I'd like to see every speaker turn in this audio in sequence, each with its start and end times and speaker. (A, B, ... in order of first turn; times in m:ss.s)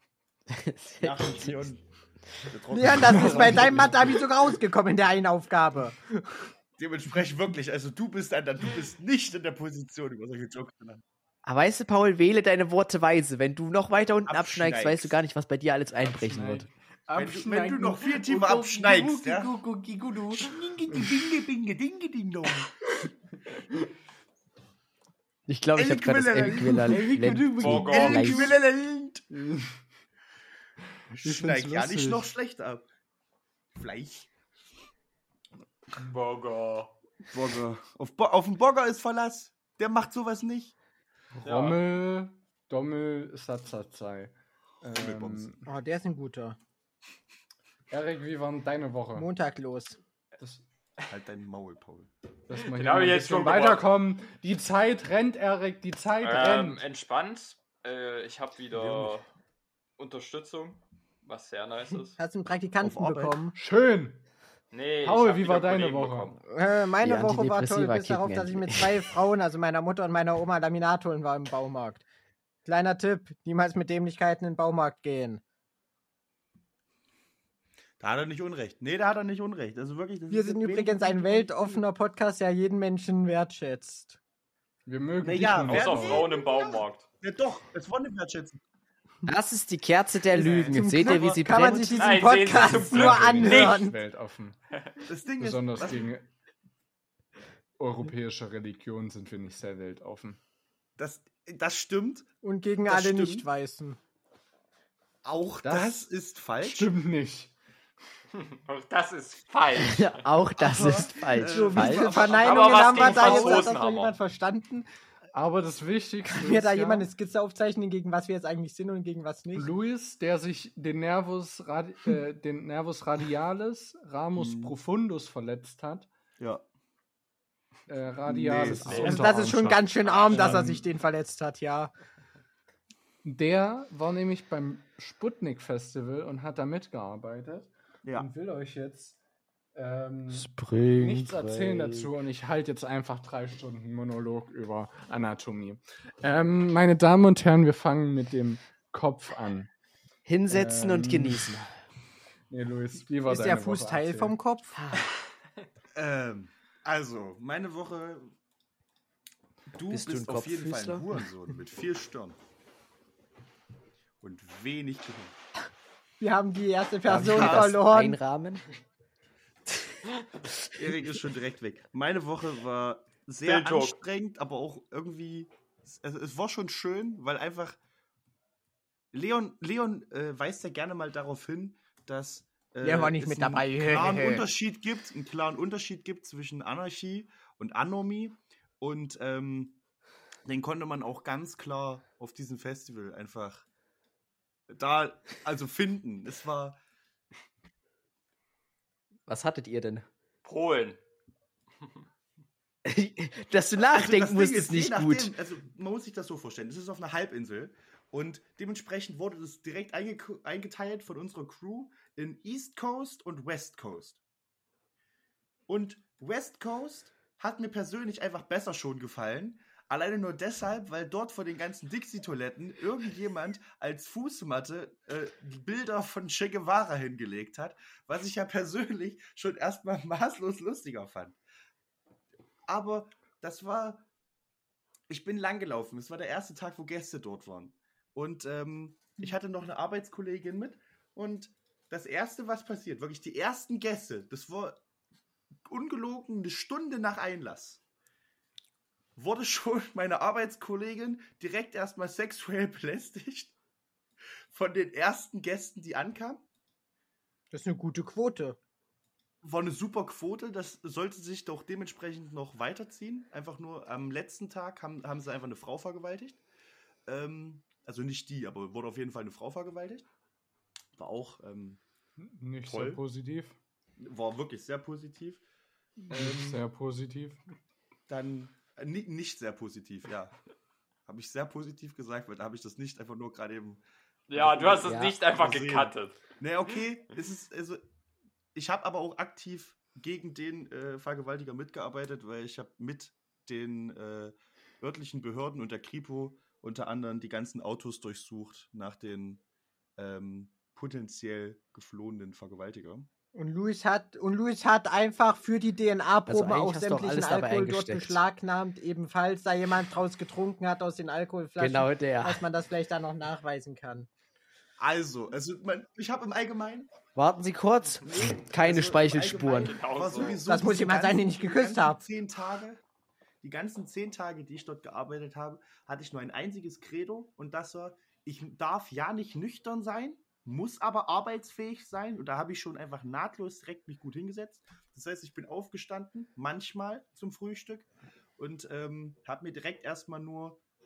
0:00.5-0:01.6 A
0:01.0-0:01.8 B
0:02.4-0:04.2 B
0:02.7-0:06.5 C
0:03.1-0:03.5 D
0:06.8-0:11.0 B
0:11.4-0:16.7 A
0:14.3-0:15.2 B
0:16.0-0:21.4 D
0:17.1-0:19.6 B
0:20.3-0:22.9 B
0:25.5-0:28.5 A
0:25.8-0:27.0 B
0:26.4-0:28.5 D
0:27.6-0:28.5 E
0:27.6-0:29.3 B
0:29.3-0:29.8 D
0:31.1-0:32.9 B
0:31.1-0:32.3 D
0:33.8-0:34.3 B
0:36.0-0:36.9 E
0:37.3-0:40.7 B
0:41.3-0:45.6 D
0:41.4-0:41.8 E
0:44.9-0:45.6 B
0:45.7-0:46.6 C
0:47.9-0:49.3 D
0:49.2-0:50.0 C
0:51.1-0:52.1 B
0:52.5-0:56.8 D
0:52.5-0:53.9 E
0:56.2-0:59.3 E
0:58.7-0:59.2 B
1:00.0-1:02.2 E
1:02.2-1:03.6 C
1:02.8-1:03.4 B
1:03.6-1:04.2 D
1:04.7-1:06.4 E
1:05.0-1:06.3 D
1:06.5-1:12.0 C
1:07.0-1:09.1 A
1:12.6-1:15.4 C
1:18.0-1:21.8 B
1:20.3-1:24.2 C
1:24.9-1:26.3 D
1:25.2-1:28.6 B
1:25.6-1:27.1 E
1:29.3-1:32.1 A
1:30.4-1:32.0 B
1:30.4-1:34.0 C
1:30.4-1:30.7 E
1:31.9-1:33.8 E
1:32.5-1:34.6 D
1:35.1-1:36.1 B
1:35.4-1:36.3 D
1:37.8-1:40.4 D
1:41.0-1:42.3 B
1:42.4-1:44.0 C
1:42.9-1:43.5 B
1:45.2-1:46.9 B
1:45.6-1:46.0 D
1:46.6-1:47.5 D
1:48.4-1:50.3 E
1:49.8-1:52.1 A
1:50.6-1:53.8 B
1:51.4-1:54.9 C
1:52.3-1:54.2 E
1:55.3-1:57.1 D
1:56.3-1:59.7 C
1:59.5-2:06.1 D
2:04.4-2:04.8 B
2:06.4-2:06.6 B
2:07.9-2:10.8 D
2:08.2-2:09.1 B
2:08.8-2:09.4 E
2:09.0-2:11.9 C
2:10.0-2:10.7 E
2:13.2-2:19.2 D
2:19.7-2:29.7 D
2:20.3-2:22.1 A
2:30.3-2:31.8 A
2:30.5-2:31.6 D
2:32.5-2:34.4 D
2:33.3-2:34.8 C
2:36.0-2:38.3 B
2:39.7-2:42.4 B
2:39.9-2:41.0 A
2:44.2-2:45.4 B
2:46.2-2:48.2 C
2:47.1-2:48.6 A
2:47.1-2:47.8 B
2:50.7-2:57.8 B
2:53.4-2:54.0 E
2:59.1-3:09.8 B
3:02.8-3:04.5 C
3:10.5-3:13.7 B
3:14.7-3:16.8 B
3:19.3-3:20.1 A
3:20.4-3:21.0 E
3:22.8-3:25.3 A
3:23.9-3:34.2 B
3:35.7-3:51.4 B
3:52.7-3:54.0 B
3:55.1-4:04.8 B
4:05.7-4:07.8 B
4:09.2-4:13.6 B
4:14.5-4:16.4 B
4:17.5-4:18.6 C
4:19.4-4:26.4 B
4:27.1-4:30.1 B
4:31.0-4:31.8 B
4:32.2-4:33.6 D
4:32.6-4:33.0 B
4:34.0-4:35.4 B
4:36.1-4:36.6 B
4:36.1-4:37.4 D
4:38.1-4:40.4 B
4:41.1-4:47.8 B
4:44.3-4:46.2 E
4:44.8-4:45.2 A
4:48.5-4:59.4 B
5:00.0-5:03.1 B
5:03.3-5:14.1 C
5:06.3-5:08.2 A
5:11.6-5:12.4 A
5:14.8-5:16.9 B
5:17.2-5:19.8 A
5:18.0-5:22.8 B
5:19.5-5:20.4 E
5:20.4-5:22.0 C
5:23.4-5:40.6 B